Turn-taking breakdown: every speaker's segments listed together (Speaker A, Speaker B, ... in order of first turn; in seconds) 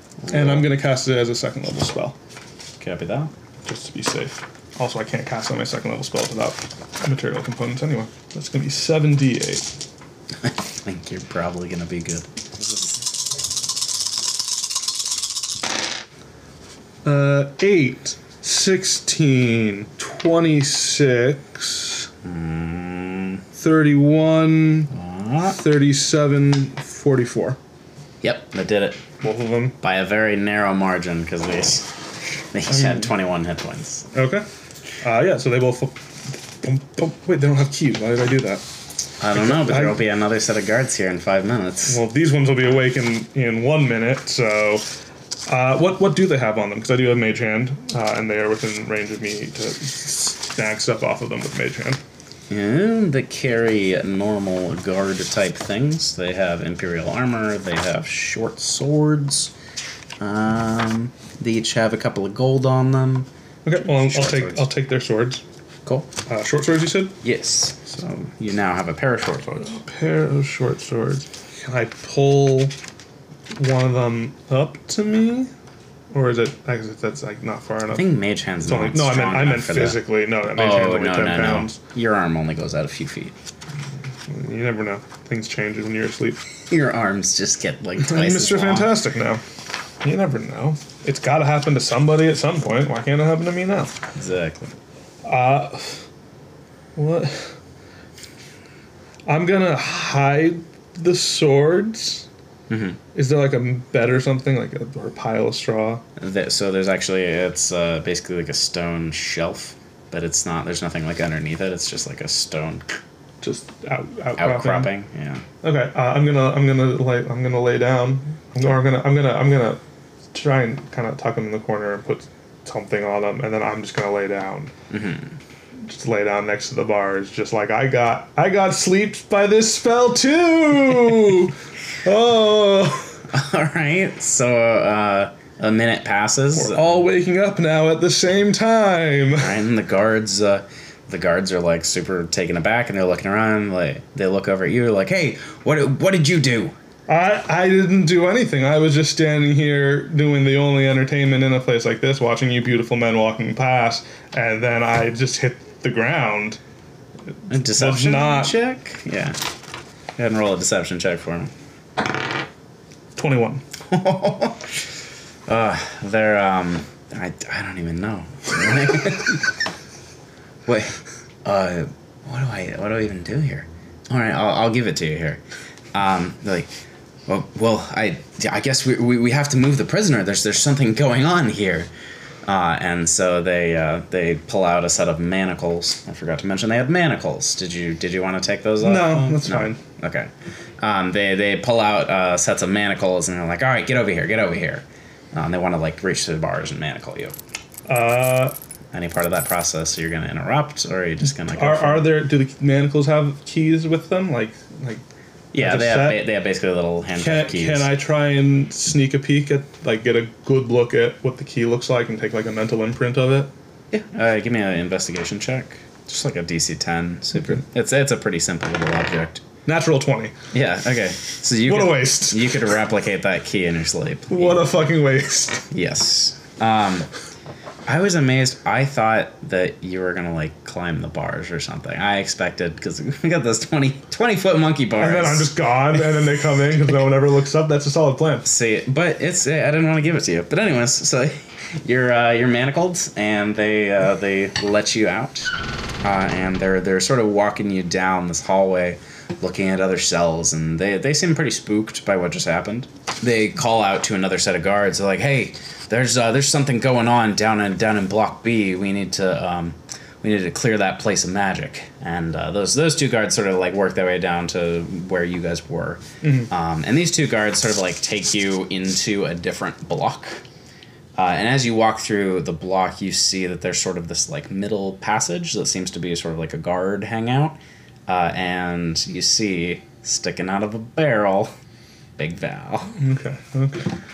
Speaker A: 0.2-0.7, 2.8-3.3, 10.4-13.1, 22.2-23.4, 24.9-25.6, 28.2-29.0, 29.8-31.9, 32.5-34.1, 39.2-42.0, 52.5-59.5, 60.2-63.3, 63.8-64.7, 67.2-69.7, 77.9-83.3, 86.7-89.0, 94.1-94.7, 102.7-103.0, 106.2-113.0, 114.4-115.4, 124.9-125.3, 133.3-136.9, 139.4-146.7, 157.5-159.4, 160.2-161.5, 163.9-164.7, 165.5-169.5, 170.7-175.4, 175.9-176.7, 177.3-181.9, 182.4-197.3, 198.9-202.2, 205.5-207.9, 213.9-219.4, 220.5-224.7, 225.7-227.1, 227.9-235.5, 238.4-270.4, 271.1-281.5, 282.2-282.9
Speaker B: 0.3-2.2, 3.6-9.7, 17.0-22.1, 23.5-24.9, 25.4-27.6, 29.2-29.8, 32.7-33.1, 34.1-34.5, 35.0-38.6, 39.3-40.0, 41.9-44.8, 45.5-52.0, 63.6-65.4, 66.3-67.2, 69.5-72.7, 73.5-75.5, 76.1-78.1, 78.6-81.8, 84.3-86.4, 88.0-89.4, 90.0-93.9, 95.2-96.0, 96.9-97.5, 99.2-102.3, 103.1-106.0, 113.4-114.9, 115.6-119.8, 120.3-124.7, 125.8-133.2, 136.5-139.6, 147.1-156.6, 157.5-158.6, 163.1-163.6, 188.8-189.8, 197.9-198.5, 201.4-205.0, 205.6-206.2, 207.2-213.5, 219.7-220.3, 221.6-222.8, 224.3-225.7, 235.0-238.5, 266.2-266.5, 283.0-283.9